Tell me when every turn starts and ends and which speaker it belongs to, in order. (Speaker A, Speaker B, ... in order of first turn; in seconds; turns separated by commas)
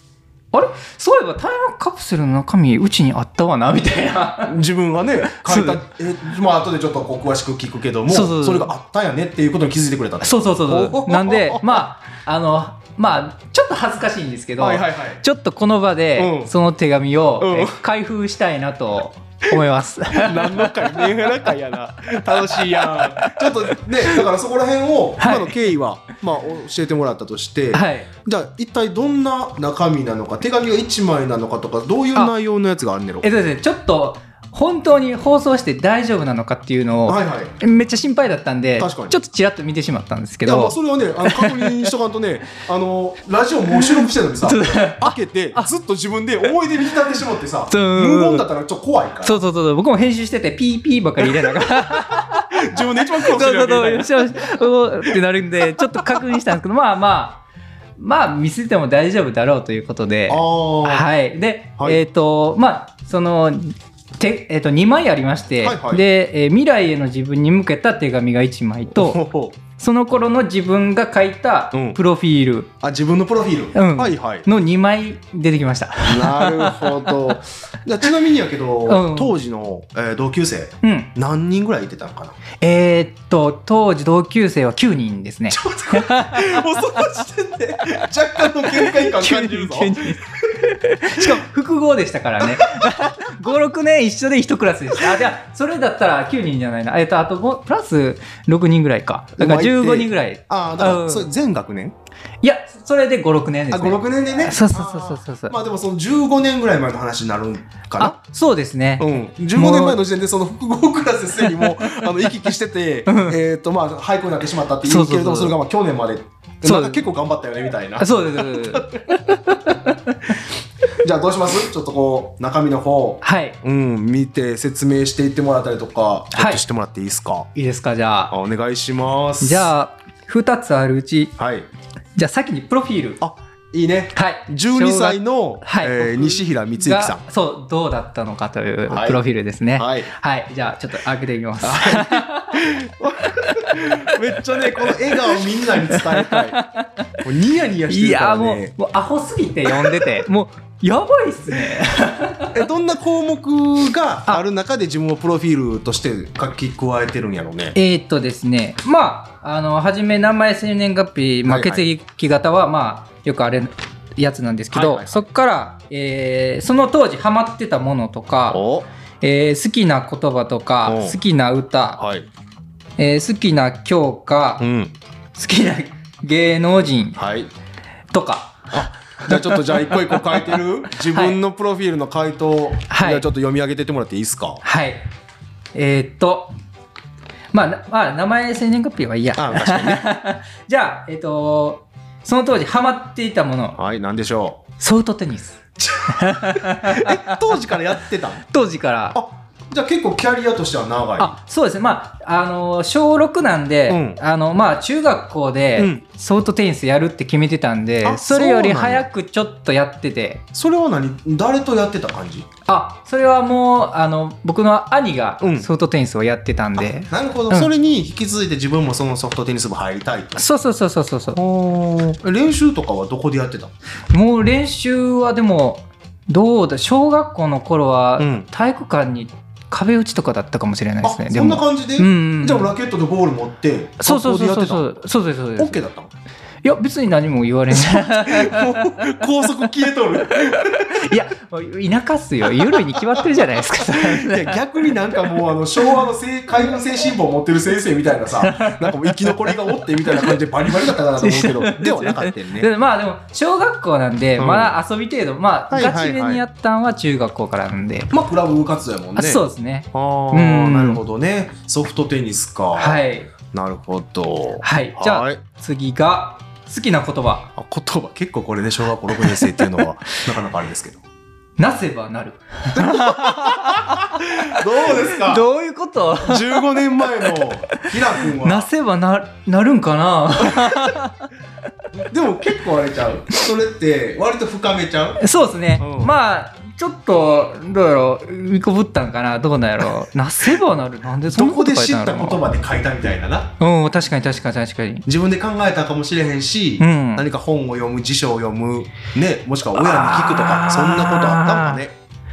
Speaker A: 0.5-4.6, Speaker B: 4.5-11.8, Speaker A: 5.2-5.8, Speaker A: 8.1-8.7, Speaker A: 10.2-21.3, Speaker B: 14.6-15.2, Speaker B: 16.2-16.5, Speaker B: 17.4-17.8, Speaker B: 20.1-33.3, Speaker A: 22.3-24.2, Speaker A: 25.2-25.7, Speaker A: 27.7-28.1, Speaker A: 33.2-41.9, Speaker B: 37.1-37.5, Speaker B: 38.8-39.2, Speaker B: 40.4-49.4, Speaker A: 43.7-45.7, Speaker A: 47.7-48.5, Speaker A: 49.2-57.4, Speaker B: 51.2-54.5, Speaker B: 55.7-56.2, Speaker A: 58.0-69.2, Speaker B: 60.3-61.1, Speaker B: 65.6-66.0, Speaker B: 68.9-69.6, Speaker A: 69.8-72.7, Speaker B: 71.7-72.0, Speaker B: 72.8-74.5, Speaker A: 73.7-77.1, Speaker B: 76.0-82.4, Speaker A: 78.9-79.3, Speaker A: 80.8-81.1, Speaker A: 82.6-87.1, Speaker B: 85.5-90.6, Speaker A: 88.6-101.3, Speaker B: 91.2-91.4, Speaker B: 92.5-93.5, Speaker B: 99.4-102.0, Speaker A: 102.4-105.5, Speaker B: 103.7-108.2, Speaker A: 108.0-110.0, Speaker B: 109.0-119.7, Speaker A: 111.4-112.1, Speaker A: 113.1-113.4, Speaker A: 114.8-115.5, Speaker A: 116.6-117.0, Speaker A: 118.0-120.4, Speaker B: 121.0-127.5, Speaker A: 123.2-123.6, Speaker A: 126.3-126.6, Speaker A: 127.5-128.3, Speaker B: 128.3-129.7, Speaker A: 129.4-131.3, Speaker B: 131.4-131.7, Speaker A: 132.2-133.2, Speaker B: 133.2-137.2, Speaker A: 134.1-142.7, Speaker B: 138.9-139.2, Speaker B: 139.8-140.1, Speaker B: 141.6-146.6, Speaker A: 143.2-147.2, Speaker B: 147.2-148.7, Speaker A: 147.9-152.6, Speaker B: 149.7-150.1, Speaker B: 152.5-157.8, Speaker A: 157.7-168.6, Speaker B: 161.5-161.8, Speaker B: 164.7-165.2, Speaker B: 168.5-168.9, Speaker A: 169.2-172.0, Speaker B: 170.8-171.2, Speaker B: 172.0-172.3, Speaker A: 173.0-174.6, Speaker B: 174.6-174.9, Speaker A: 175.3-177.2, Speaker B: 177.1-177.5, Speaker A: 178.1-181.4, Speaker B: 178.7-184.6, Speaker A: 182.9-183.2, Speaker A: 184.6-185.0, Speaker A: 185.7-186.5, Speaker A: 187.5-193.8, Speaker B: 189.3-190.0, Speaker B: 193.8-194.6, Speaker A: 194.8-197.8, Speaker B: 195.8-198.4, Speaker A: 198.5-199.2, Speaker B: 199.1-201.3, Speaker A: 201.2-210.4, Speaker B: 203.9-204.2, Speaker B: 205.8-206.0, Speaker B: 208.0-209.1, Speaker B: 210.5-212.5, Speaker A: 212.7-217.7, Speaker B: 215.4-215.7, Speaker B: 216.8-220.4, Speaker A: 220.3-221.4, Speaker B: 221.3-223.7, Speaker A: 224.1-232.7, Speaker B: 228.2-228.5, Speaker B: 231.0-234.8, Speaker A: 234.0-235.8, Speaker B: 235.6-236.1, Speaker A: 236.6-239.0, Speaker B: 237.7-241.2, Speaker A: 240.7-244.6, Speaker B: 242.6-252.7, Speaker A: 248.4-258.1, Speaker B: 254.4-254.8, Speaker B: 255.7-256.4, Speaker B: 258.1-265.4, Speaker A: 259.1-261.0, Speaker A: 262.7-263.3, Speaker A: 264.6-267.5, Speaker B: 267.6-271.0, Speaker A: 269.1-270.2, Speaker A: 271.6-281.3, Speaker B: 272.7-275.4, Speaker B: 276.2-278.7, Speaker B: 280.4-280.9, Speaker B: 281.9-285.2, Speaker A: 285.2-292.4, Speaker B: 285.8-286.1, Speaker B: 291.3-293.5, Speaker A: 293.6-295.0, Speaker B: 295.1-301.9, Speaker A: 296.8-297.2, Speaker A: 299.7-301.8